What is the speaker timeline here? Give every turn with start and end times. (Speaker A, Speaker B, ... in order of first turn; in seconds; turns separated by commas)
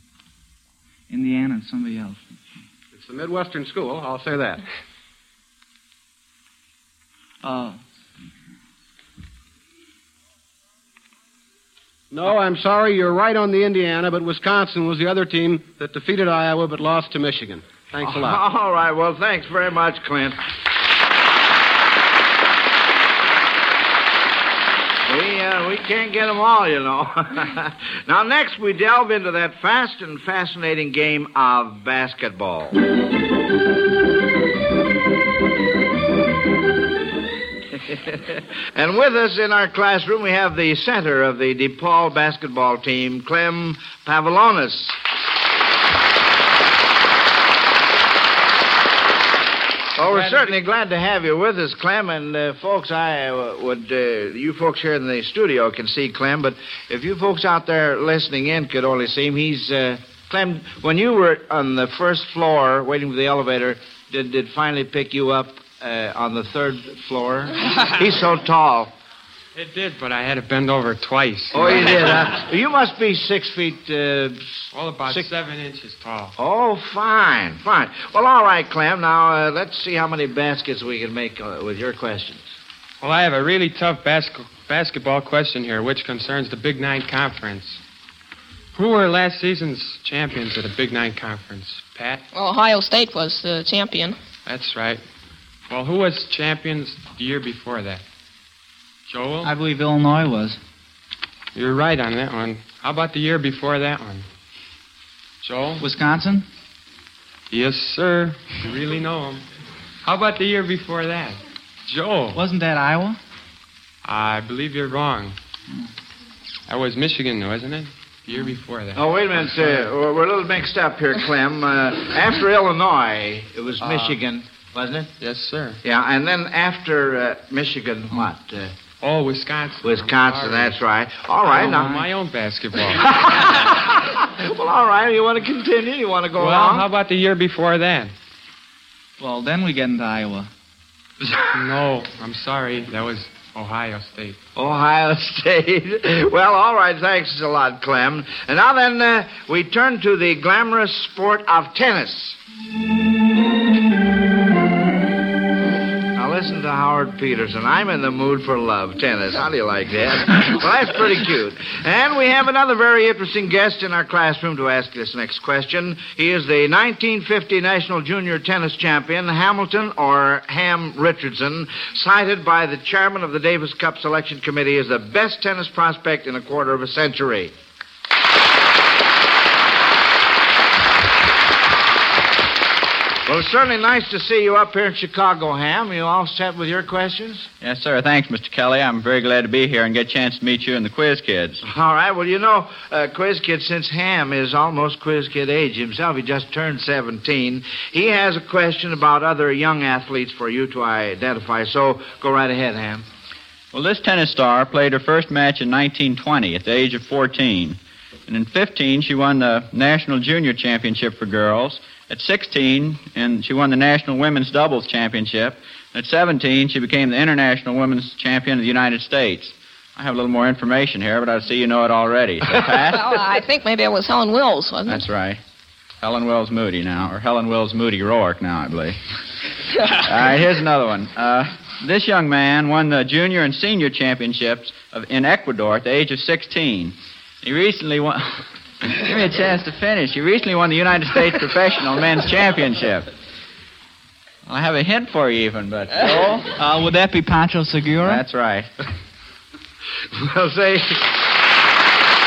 Speaker A: 1.1-2.4, Speaker B: 2.9-4.6, Speaker A: 7.4-7.8, Speaker B: 12.1-18.4, Speaker C: 18.0-20.4, Speaker C: 25.1-32.8, Speaker C: 38.7-45.0, Speaker C: 50.0-68.9, Speaker D: 50.1-50.4, Speaker D: 69.5-72.0, Speaker C: 71.5-75.3, Speaker D: 74.7-76.3, Speaker C: 76.4-82.5, Speaker D: 83.0-87.8, Speaker D: 88.7-92.2, Speaker E: 92.3-94.2, Speaker D: 94.4-95.0, Speaker D: 95.7-98.0, Speaker D: 99.1-99.5, Speaker A: 99.4-100.6, Speaker D: 101.5-104.3, Speaker D: 105.4-105.8, Speaker A: 105.8-106.5, Speaker D: 107.5-109.4, Speaker D: 110.0-112.4, Speaker A: 112.3-113.2, Speaker D: 114.0-115.3, Speaker D: 116.7-119.8, Speaker C: 118.9-125.1, Speaker D: 123.8-124.2, Speaker D: 125.2-125.8, Speaker C: 125.8-128.7, Speaker D: 129.0-130.8, Speaker C: 129.8-132.0, Speaker D: 131.5-133.0, Speaker A: 131.5-132.1, Speaker C: 134.4-136.9, Speaker D: 136.4-138.1, Speaker A: 139.2-140.5, Speaker D: 141.5-144.4, Speaker C: 144.6-152.4, Speaker C: 156.2-177.5, Speaker C: 183.2-187.5, Speaker F: 187.6-191.6, Speaker C: 191.6-203.1, Speaker F: 203.7-223.2, Speaker E: 222.9-225.1, Speaker F: 224.9-225.4, Speaker F: 226.0-229.0, Speaker F: 229.9-243.1, Speaker F: 244.4-246.5, Speaker A: 246.5-248.2, Speaker F: 248.0-248.7, Speaker C: 250.1-251.0